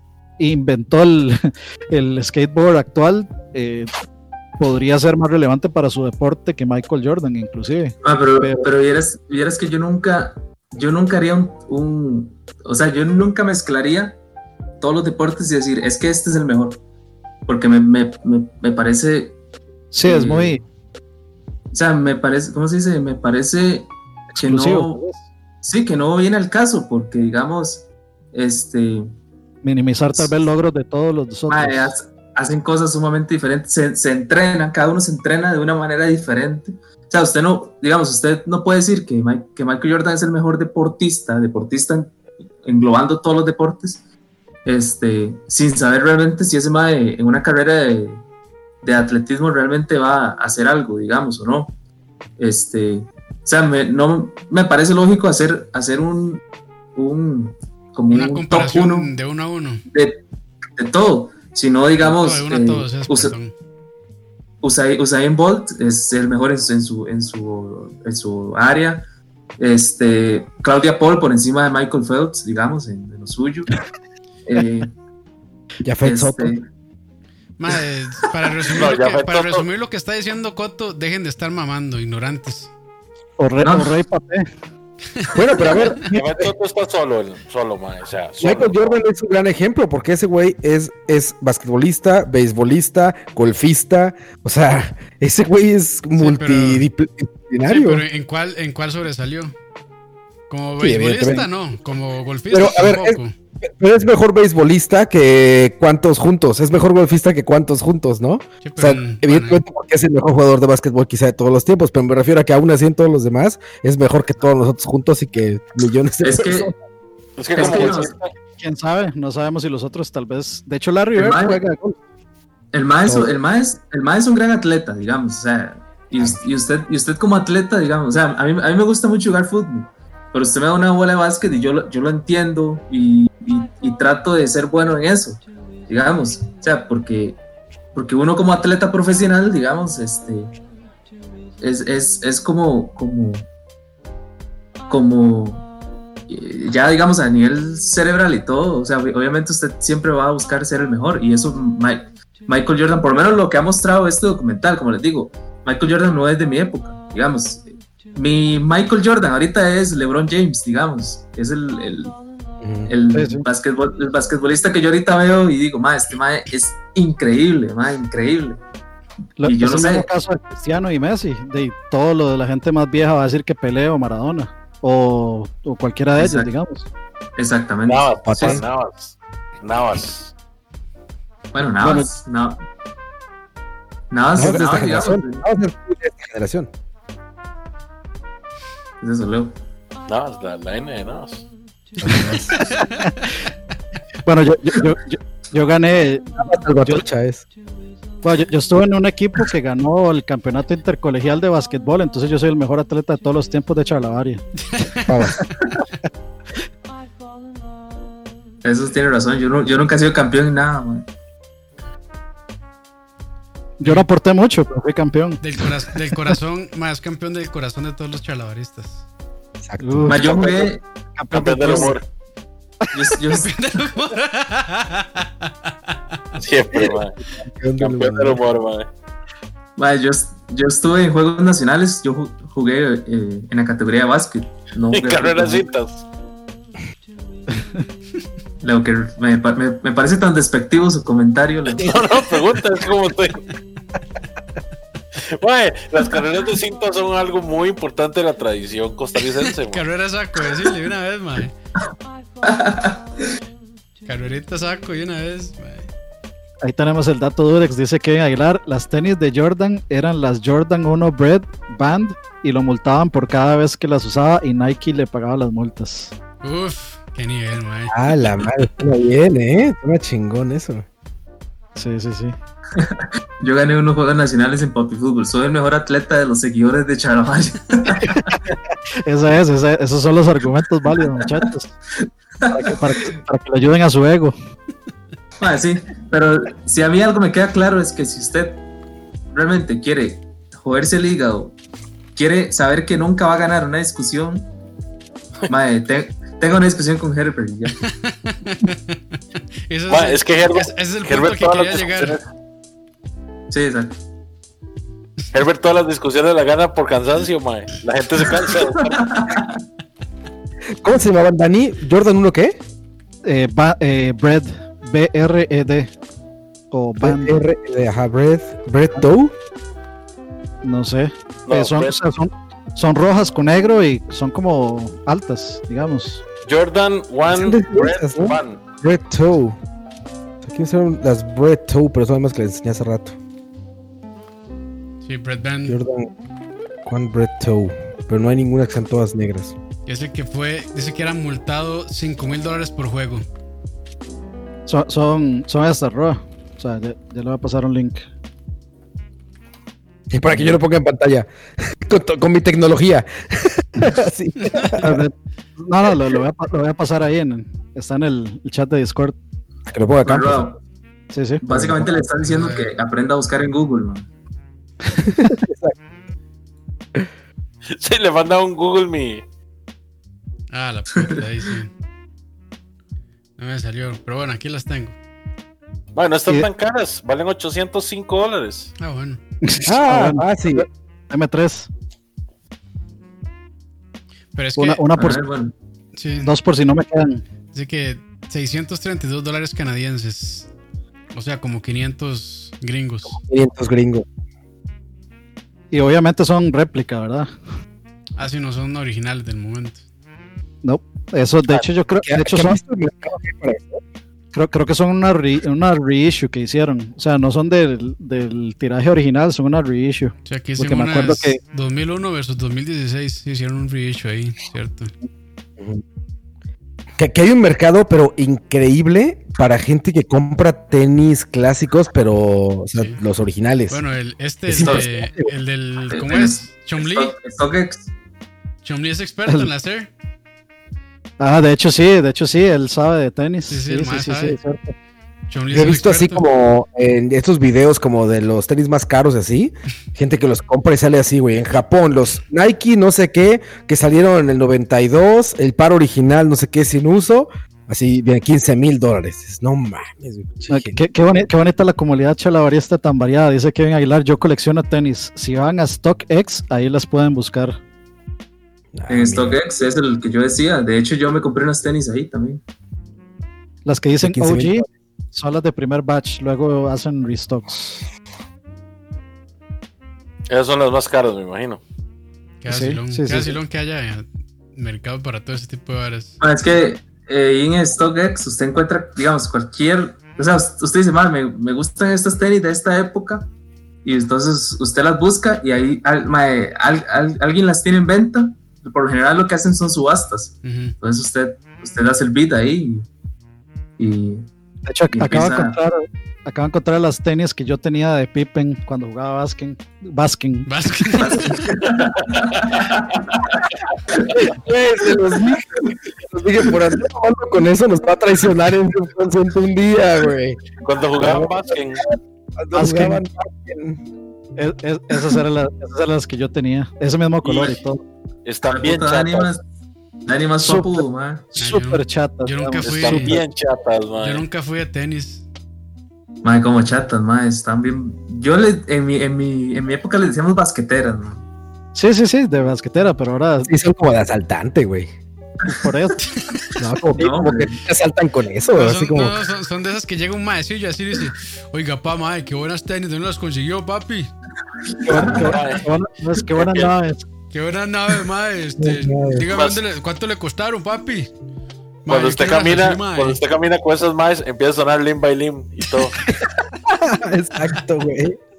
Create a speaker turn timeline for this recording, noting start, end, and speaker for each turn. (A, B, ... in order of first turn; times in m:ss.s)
0:00.4-0:03.9 A
0:04.6-0:08.7 A
0:08.0-0:14.2 B
0:14.8-0:16.8 B
0:17.5-0:19.4 B
0:19.9-0:20.6 A
0:20.0-0:20.6 B
0:21.7-0:25.0 B
0:24.4-0:25.2 A
0:25.6-0:29.1 B
0:29.6-0:31.9 A
0:31.5-0:44.0 B
0:44.7-0:48.2 B
0:48.8-0:51.7 B
0:52.4-0:56.4 B
0:57.0-0:59.1 B
0:58.1-0:59.8 C
0:59.9-1:00.2 B
1:00.8-1:03.3 B
1:02.0-1:03.5 C
1:04.6-1:09.1 B
1:09.6-1:13.8 B
1:14.5-1:14.9 B
1:15.8-1:16.6 D
1:16.0-1:16.6 B
1:17.6-1:22.7 C
1:18.7-1:19.7 E
1:23.4-1:24.5 A
1:23.6-1:24.0 B
1:25.3-1:26.5 D
1:26.0-1:29.0 E
1:28.4-1:38.0 D
1:36.2-1:36.9 C
1:37.6-1:39.5 C
1:40.5-1:43.3 C
1:40.8-1:41.5 D
1:42.5-1:56.7 D
1:48.6-1:49.6 C
1:56.2-1:56.7 B
1:57.4-1:58.3 E
1:57.5-1:58.2 B
1:57.6-1:58.0 D
1:58.6-2:02.0 A
2:01.2-2:01.6 B
2:02.7-2:17.4 B
2:03.1-2:03.3 D
2:17.9-2:20.5 B
2:21.6-2:23.5 B
2:24.9-2:25.7 B
2:26.3-2:42.2 B
2:42.6-2:42.9 D
2:42.9-2:48.6 B
2:43.1-2:43.4 A
2:49.4-2:56.9 A
2:49.4-2:50.1 B
2:56.2-2:56.5 B
2:57.4-2:58.7 B
2:57.9-3:00.3 E
2:58.2-2:58.6 D
3:01.5-3:02.6 B
3:04.1-3:05.4 B
3:04.3-3:06.7 D
3:09.0-3:09.5 B
3:10.1-3:11.5 E
3:12.0-3:12.6 D
3:14.2-3:17.0 A
3:16.4-3:17.4 D
3:18.2-3:24.4 A
3:25.0-3:25.5 D
3:28.6-3:31.1 B
3:33.8-3:35.4 A
3:33.8-3:34.1 C
3:35.4-3:39.0 C
3:39.6-3:40.7 D
3:39.8-3:40.3 A
3:40.1-3:40.8 B
3:41.2-3:42.0 A
3:41.3-3:42.0 E
3:42.9-3:43.8 B
3:43.4-3:45.7 C
3:46.4-3:47.2 E
3:47.4-3:48.4 D
3:47.8-3:48.9 E
3:49.8-3:55.7 B
3:54.9-3:56.0 E
3:58.6-4:02.0 B
4:01.7-4:03.4 E
4:05.3-4:09.8 E
4:09.4-4:11.5 C
4:12.4-4:13.0 B
4:14.0-4:15.9 C
4:16.6-4:26.1 A
4:26.4-4:28.5 C
4:27.9-4:30.8 D
4:31.8-4:32.4 A
4:32.8-4:38.4 B
4:38.0-4:41.7 A
4:42.0-4:42.8 B
4:42.5-4:44.3 A
4:45.4-4:48.6 B
4:49.3-4:51.6 B
4:52.2-4:54.5 B
4:55.5-4:57.8 B
4:57.8-4:59.0 C
4:59.7-5:02.2 C
4:59.9-5:02.2 E
5:03.5-5:04.0 B
5:05.3-5:09.1 E
5:08.8-5:09.6 B
5:10.8-5:12.6 D
5:13.2-5:15.9 A
5:16.7-5:17.4 A
5:17.0-5:19.3 D
5:20.6-5:26.2 A
5:21.5-5:22.0 E
5:26.4-5:28.6 E
5:27.3-5:29.6 D
5:30.4-5:33.2 D
5:35.0-5:35.8 C
5:35.7-5:36.1 D
5:36.8-5:39.6 D
5:39.9-5:43.2 C
5:44.7-5:48.1 A
5:50.1-5:51.3 D
5:51.8-5:55.0 D
5:54.7-5:59.2 A
5:59.7-6:00.5 D
6:00.0-6:00.6 B
6:01.1-6:01.4 A
6:01.4-6:04.1 B
6:01.5-6:01.9 D
6:02.2-6:02.8 C
6:05.0-6:05.7 D
6:07.7-6:09.2 E
6:10.5-6:11.7 C
6:11.0-6:11.2 B
6:13.4-6:15.0 C
6:16.0-6:18.7 E
6:18.8-6:19.2 C
6:19.4-6:21.7 A
6:19.6-6:20.7 D
6:24.3-6:24.8 C
6:24.6-6:25.2 A
6:25.0-6:25.5 B
6:26.0-6:26.3 C
6:26.2-6:27.2 A
6:27.5-6:30.5 C
6:31.1-6:33.2 C
6:33.1-6:34.1 D
6:35.7-6:37.3 A
6:38.2-6:39.8 C
6:40.6-6:42.6 A
6:41.5-6:43.8 D
6:44.3-6:51.4 A
6:50.2-6:54.9 C
6:57.0-7:03.8 D
7:03.7-7:07.2 C
7:04.5-7:05.3 D
7:04.6-7:04.8 B
7:05.9-7:07.9 B
7:08.6-7:09.9 C
7:11.2-7:14.8 A
7:13.5-7:14.4 C
7:15.3-7:16.2 C
7:15.5-7:30.8 D
7:30.5-7:37.6 A
7:38.8-7:39.4 D
7:38.9-7:42.4 B
7:43.6-7:47.8 A
7:44.0-7:44.7 D
7:50.3-7:51.6 E
7:52.4-7:56.2 C
7:52.5-7:53.4 A
7:56.2-8:03.3 B
8:03.8-8:12.9 B
8:10.4-8:10.8 C
8:13.8-8:14.3 B
8:14.7-8:20.5 A
8:14.9-8:15.6 B
8:20.5-8:21.5 C
8:21.0-8:23.4 B
8:21.7-8:22.6 E
8:24.0-8:30.4 D
8:30.6-8:31.8 E
8:31.0-8:33.8 D
8:32.5-8:33.0 A
8:34.4-8:37.8 A
8:37.2-8:37.6 E
8:38.3-8:39.3 E
8:38.5-8:39.4 B
8:40.1-8:41.3 B
8:40.4-8:43.2 A
8:41.4-8:43.2 C
8:42.6-8:44.2 E
8:44.0-8:45.2 C
8:46.2-8:51.2 B
8:51.8-8:53.5 A
8:53.5-8:54.9 D
8:55.5-8:56.1 A
8:56.6-8:59.2 D
8:57.0-8:57.6 B
8:58.6-9:04.1 C
9:04.9-9:07.0 A
9:04.9-9:05.3 B
9:05.0-9:05.6 E
9:06.3-9:06.7 E
9:07.3-9:11.1 C
9:08.6-9:09.2 D
9:09.3-9:09.6 E
9:11.9-9:13.2 C
9:11.9-9:16.0 E
9:16.7-9:18.2 D